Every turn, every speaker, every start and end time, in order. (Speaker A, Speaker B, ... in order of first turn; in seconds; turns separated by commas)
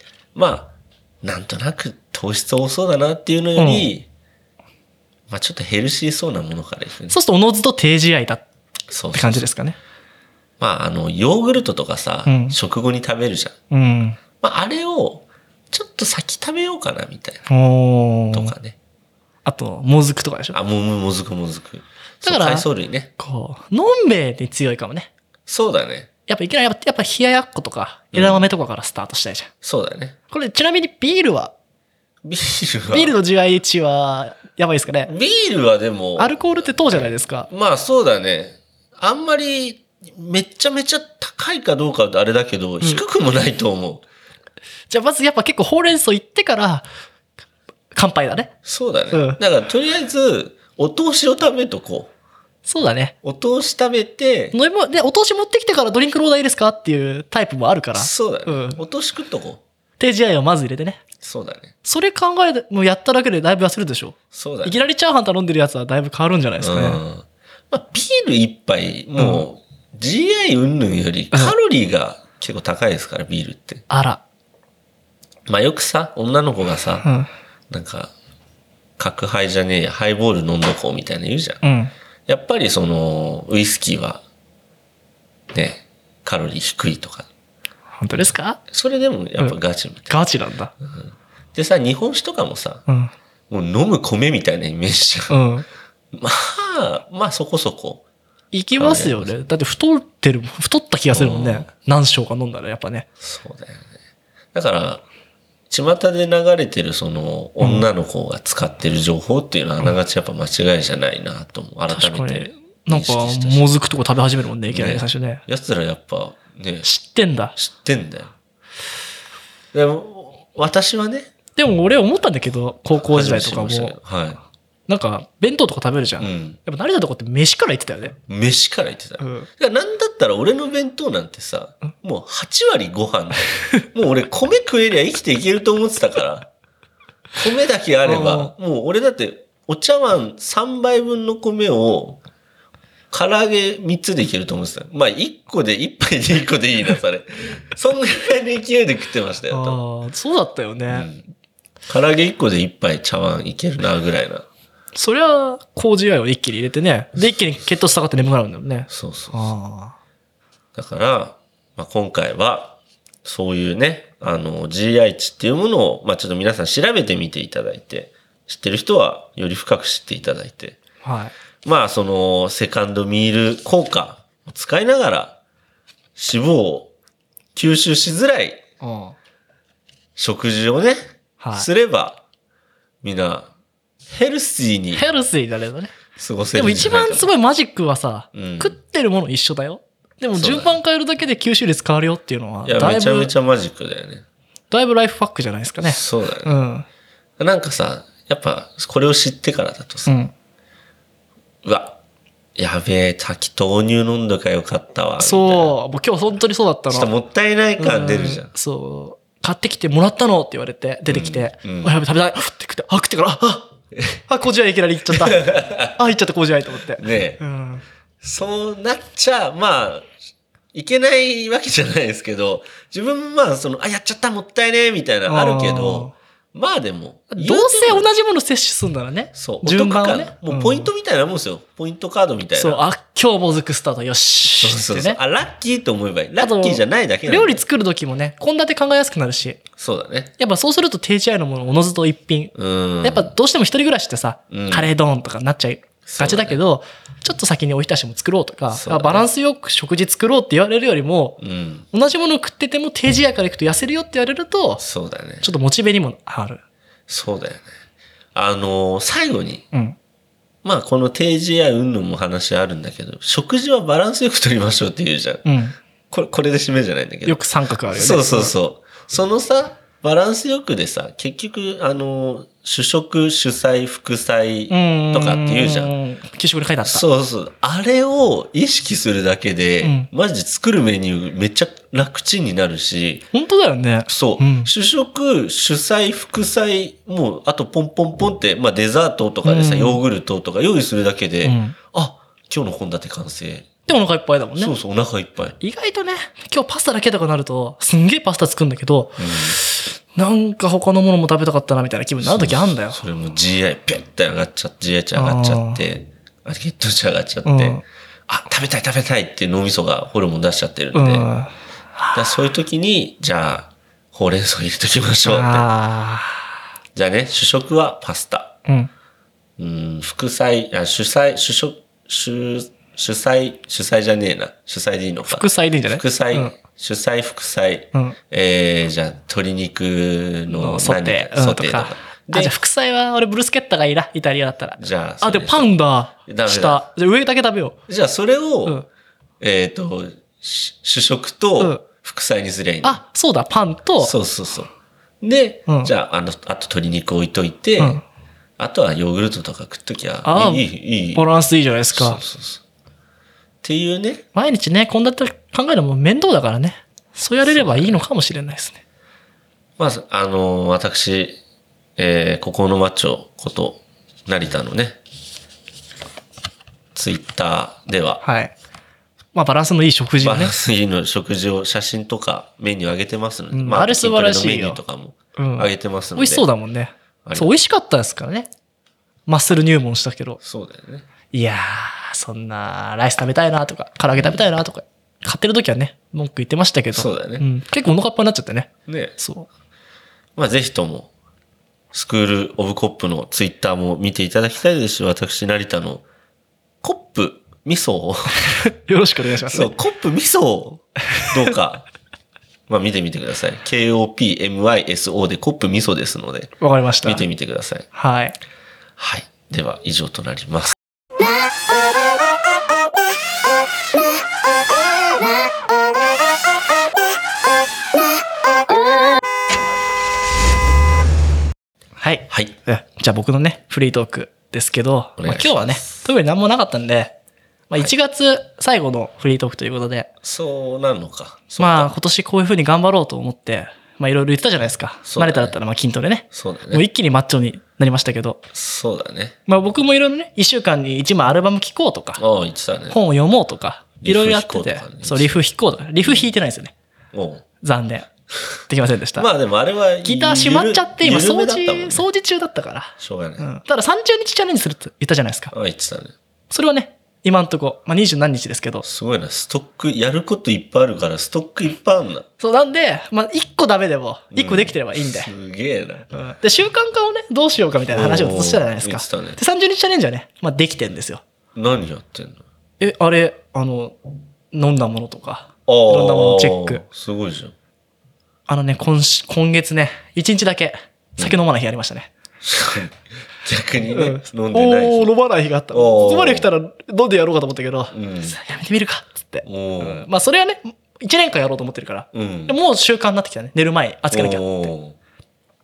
Speaker A: 0.3-4.1, Speaker B: 3.6-3.9, Speaker A: 5.3-7.2, Speaker B: 7.1-8.4, Speaker A: 8.9-9.5, Speaker B: 9.1-9.8, Speaker A: 10.6-13.6, Speaker B: 12.2-12.6, Speaker B: 13.7-14.2, Speaker A: 14.4-17.4, Speaker B: 17.5-18.5, Speaker A: 18.3-18.8, Speaker B: 19.5-20.6, Speaker A: 20.5-23.1, Speaker B: 22.2-22.7, Speaker B: 23.2-25.1, Speaker A: 25.5-26.1, Speaker B: 26.3-29.5, Speaker A: 28.1-28.5, Speaker A: 29.6-30.2, Speaker B: 30.3-31.5, Speaker A: 32.2-33.2, Speaker B: 32.9-35.1, Speaker A: 35.1-44.0, Speaker B: 36.2-37.5, Speaker B: 44.9-46.9, Speaker B: 47.9-48.5, Speaker A: 48.6-52.1, Speaker B: 49.1-49.4, Speaker B: 52.7-53.1, Speaker A: 53.2-54.6, Speaker B: 54.5-58.8, Speaker A: 58.0-59.6, Speaker B: 60.0-61.0, Speaker A: 61.2-61.7, Speaker B: 61.8-67.0, Speaker A: 64.3-64.8, Speaker A: 66.6-73.8, Speaker B: 69.2-69.4, Speaker B: 73.9-74.2, Speaker A: 75.5-77.1, Speaker B: 77.0-77.3, Speaker A: 77.7-78.1, Speaker A: 79.0-81.6, Speaker B: 81.6-81.9, Speaker A: 82.3-84.2, Speaker A: 85.5-87.3, Speaker B: 88.0-88.6, Speaker A: 88.7-90.1, Speaker B: 90.1-90.7, Speaker A: 90.8-92.8, Speaker A: 93.5-95.4, Speaker B: 95.3-95.7, Speaker A: 96.1-98.0, Speaker B: 98.5-103.1, Speaker A: 98.8-99.4, Speaker A: 101.1-101.7, Speaker A: 103.2-103.9, Speaker A: 104.5-105.0, Speaker A: 105.7-113.7, Speaker B: 111.9-115.4, Speaker A: 114.7-116.9, Speaker B: 116.8-117.6, Speaker A: 117.6-118.3, Speaker A: 119.7-121.3, Speaker B: 121.6-124.0, Speaker A: 122.9-124.4, Speaker B: 124.9-128.2, Speaker A: 126.2-126.6, Speaker A: 128.3-136.5, Speaker B: 129.2-129.5, Speaker A: 137.4-142.2, Speaker B: 138.1-138.5, Speaker A: 143.1-149.8, Speaker B: 149.5-151.1, Speaker A: 150.9-151.3, Speaker A: 151.9-154.5, Speaker B: 154.9-160.0, Speaker A: 158.9-159.5, Speaker A: 160.8-170.8, Speaker B: 171.0-171.3, Speaker A: 171.6-175.4, Speaker A: 176.2-176.9, Speaker A: 177.6-178.6, Speaker B: 178.8-179.2, Speaker A: 180.2-181.0, Speaker B: 181.4-181.7, Speaker A: 181.5-182.2, Speaker A: 183.0-183.5, Speaker A: 184.1-185.0, Speaker B: 184.9-185.9, Speaker A: 186.2-187.3, Speaker B: 186.6-193.3, Speaker A: 188.3-188.8, Speaker A: 190.4-190.8, Speaker A: 192.6-194.2, Speaker B: 194.7-196.9, Speaker A: 195.8-196.6, Speaker A: 197.4-200.1, Speaker B: 200.1-200.3, Speaker A: 201.6-202.0, Speaker A: 202.6-205.8, Speaker B: 205.2-207.1, Speaker A: 206.9-208.5, Speaker B: 207.8-213.7, Speaker A: 211.1-211.9, Speaker A: 213.9-214.2, Speaker B: 214.3-217.8, Speaker A: 215.1-216.0, Speaker A: 216.9-217.4, Speaker A: 218.2-220.1, Speaker A: 220.7-228.1, Speaker B: 225.3-226.1, Speaker B: 227.3-230.9, Speaker A: 229.3-232.8, Speaker B: 232.6-235.2, Speaker A: 234.6-237.6, Speaker B: 236.4-239.6, Speaker A: 239.8-240.3, Speaker B: 240.4-251.4, Speaker A: 242.6-243.3, Speaker A: 244.5-244.9, Speaker A: 246.1-246.6, Speaker A: 248.7-249.3, Speaker A: 251.4-251.9, Speaker B: 251.9-254.8, Speaker A: 254.8-255.5, Speaker B: 255.4-256.6, Speaker A: 257.1-257.7, Speaker A: 258.4-259.6, Speaker A: 260.6-265.5, Speaker B: 265.5-265.8, Speaker A: 266.1-275.9, Speaker B: 267.3-268.5, Speaker B: 274.7-277.0, Speaker A: 276.8-283.3, Speaker B: 279.8-280.1, Speaker B: 283.3-284.7, Speaker A: 284.1-293.7, Speaker B: 289.4-290.0, Speaker B: 291.4-291.8, Speaker B: 293.9-294.7, Speaker A: 294.6-295.6, Speaker B: 295.6-303.0, Speaker A: 299.2-299.6, Speaker A: 302.2-311.3, Speaker B: 305.1-305.8, Speaker B: 307.4-307.8, Speaker B: 310.9-312.2, Speaker A: 312.1-315.7, Speaker B: 315.2-316.5, Speaker A: 316.9-318.6, Speaker A: 319.6-332.6, Speaker B: 325.3-326.6, Speaker B: 330.5-337.8, Speaker A: 334.8-335.7, Speaker A: 336.3-336.8, Speaker A: 337.9-338.8, Speaker A: 339.4-343.0, Speaker B: 341.6-341.8, Speaker B: 342.8-344.1, Speaker A: 344.0-344.7, Speaker A: 345.2-348.0, Speaker B: 345.7-345.9, Speaker B: 347.8-348.0, Speaker A: 348.6-351.3, Speaker B: 350.2-352.2, Speaker A: 351.9-352.6, Speaker A: 353.6-354.2, Speaker B: 354.3-358.8, Speaker A: 357.4-358.1, Speaker A: 359.8-361.4, Speaker A: 362.0-365.0, Speaker A: 366.9-368.2, Speaker B: 368.2-368.6, Speaker B: 369.3-370.5, Speaker A: 370.2-376.5, Speaker B: 373.5-374.8, Speaker B: 375.4-378.5, Speaker A: 377.2-377.5, Speaker B: 379.3-380.4, Speaker A: 380.4-381.1, Speaker B: 381.3-389.5, Speaker A: 384.1-384.4, Speaker A: 386.9-387.5, Speaker A: 388.9-389.1, Speaker A: 390.4-391.1, Speaker A: 391.9-396.1, Speaker A: 396.8-398.4, Speaker B: 398.5-399.7, Speaker A: 399.5-401.9, Speaker A: 402.7-407.9, Speaker B: 406.6-407.2, Speaker B: 407.9-408.4, Speaker A: 409.0-410.8, Speaker B: 422.0-427.1, Speaker A: 425.2-426.1, Speaker B: 427.7-430.1, Speaker A: 430.2-431.9, Speaker B: 431.6-438.5, Speaker A: 435.1-435.6, Speaker A: 436.3-436.8, Speaker A: 438.5-439.4, Speaker B: 439.5-442.2, Speaker A: 442.2-443.0, Speaker B: 442.9-446.7, Speaker A: 444.0-445.4, Speaker A: 446.0-446.3, Speaker A: 447.1-447.4, Speaker B: 447.6-448.1, Speaker B: 448.7-449.3, Speaker A: 449.1-452.1, Speaker B: 450.0-455.5, Speaker A: 453.0-453.5, Speaker A: 455.5-456.1, Speaker B: 456.5-458.9, Speaker A: 458.8-462.3, Speaker B: 462.4-465.3, Speaker A: 464.3-466.1, Speaker B: 466.1-471.2, Speaker A: 467.9-469.4, Speaker A: 471.6-472.4, Speaker B: 472.8-474.0, Speaker B: 474.5-476.8, Speaker A: 475.7-477.6, Speaker B: 478.5-482.1, Speaker A: 482.4-485.1, Speaker B: 483.8-494.7, Speaker A: 485.7-486.5, Speaker A: 487.9-488.4, Speaker A: 489.4-490.1, Speaker A: 492.1-492.6, Speaker A: 494.1-495.0